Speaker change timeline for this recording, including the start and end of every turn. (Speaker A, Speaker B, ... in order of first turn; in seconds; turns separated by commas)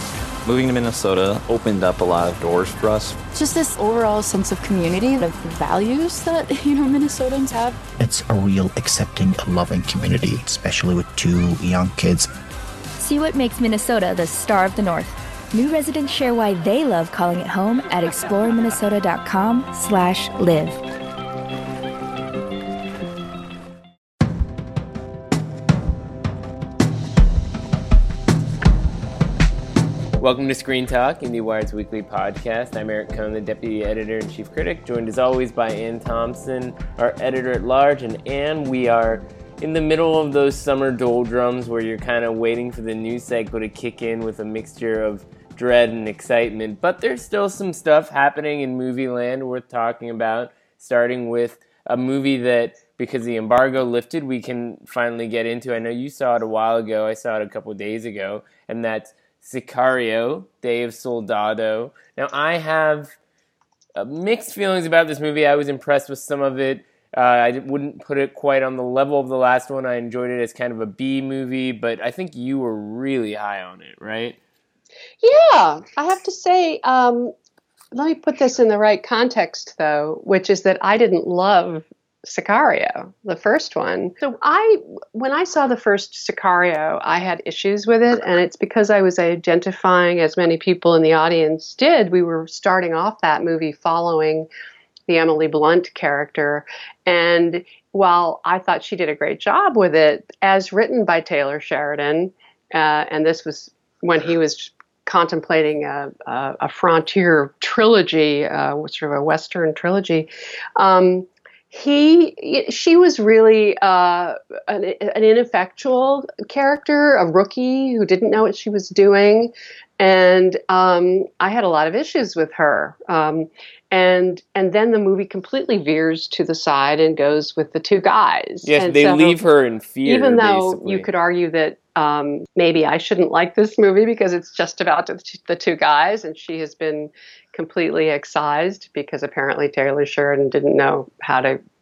Speaker A: 0.5-3.2, Speaker B: 3.3-7.8, Speaker C: 8.0-12.3, Speaker D: 13.0-20.8, Speaker E: 30.2-63.2, Speaker E: 64.0-74.4, Speaker F: 75.2-77.3, Speaker F: 77.9-94.5, Speaker F: 95.1-129.4, Speaker E: 128.6-131.1, Speaker F: 130.1-141.6